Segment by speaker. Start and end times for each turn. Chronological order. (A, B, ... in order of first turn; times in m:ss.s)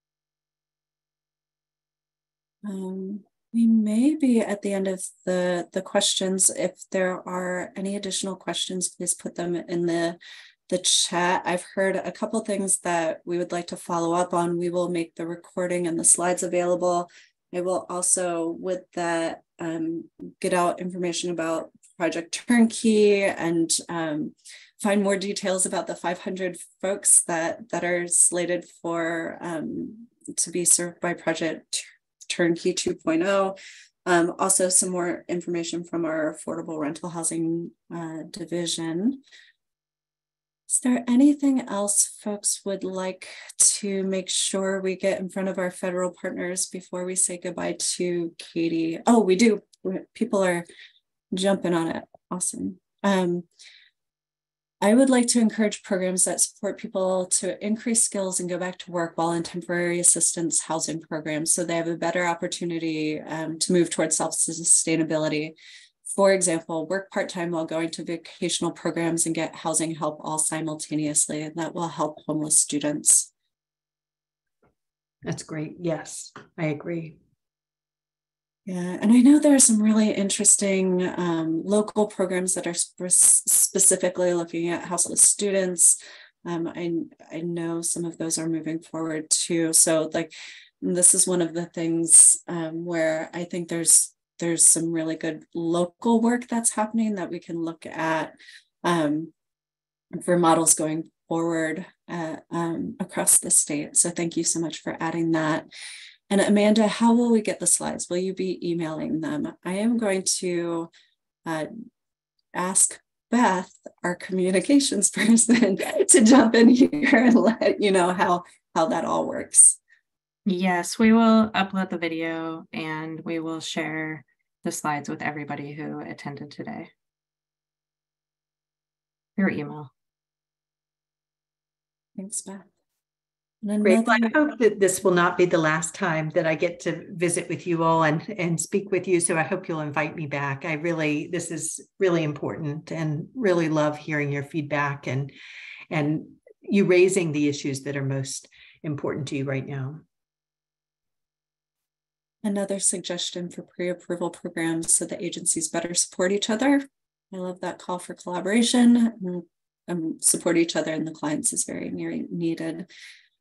0:02.6-0:39.2 A
0:40.7-0:50.6 A
0:51.3-0:53.4 A
0:54.8-1:05.5 A
1:06.0-1:13.3 A
1:15.2-1:17.2 B
1:18.6-1:39.3 A
1:40.1-1:45.7 A
1:46.3-1:50.9 A
1:52.5-1:59.8 A
2:00.4-2:06.9 C
2:09.4-2:09.9 C
2:12.2-2:12.7 A
2:13.6-2:14.4 A
2:13.8-2:25.3 B
2:25.9-2:30.0 B
2:32.4-2:42.9 A